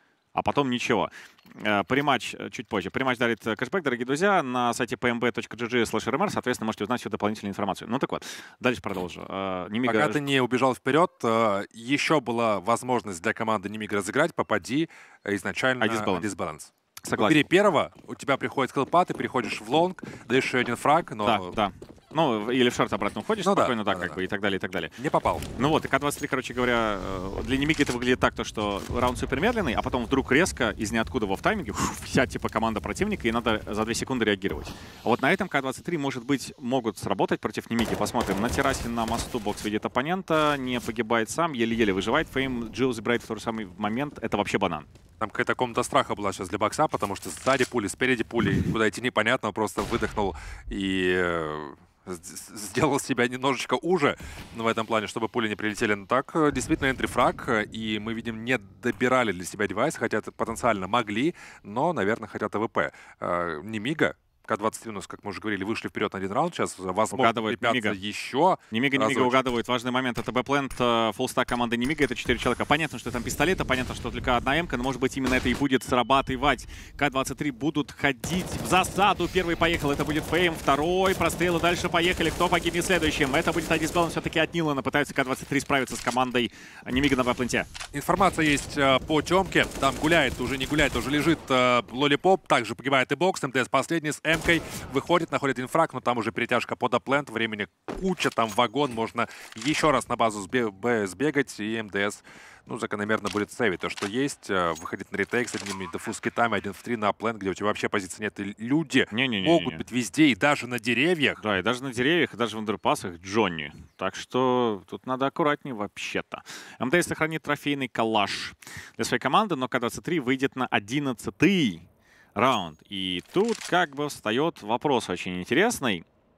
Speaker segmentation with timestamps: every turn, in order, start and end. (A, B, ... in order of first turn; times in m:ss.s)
0:00.4-0:10.3 A
0:09.9-0:21.5 B
0:15.8-0:16.3 A
0:17.1-0:17.4 A
0:21.2-0:25.0 A
0:23.4-0:24.2 B
0:25.0-0:25.5 B
0:25.6-0:44.9 A
0:45.2-1:09.4 B
1:07.1-1:08.0 A
1:08.7-1:27.7 A
1:27.9-1:51.4 B
1:49.1-1:49.8 A
1:51.4-2:01.8 A
2:02.4-2:06.0 A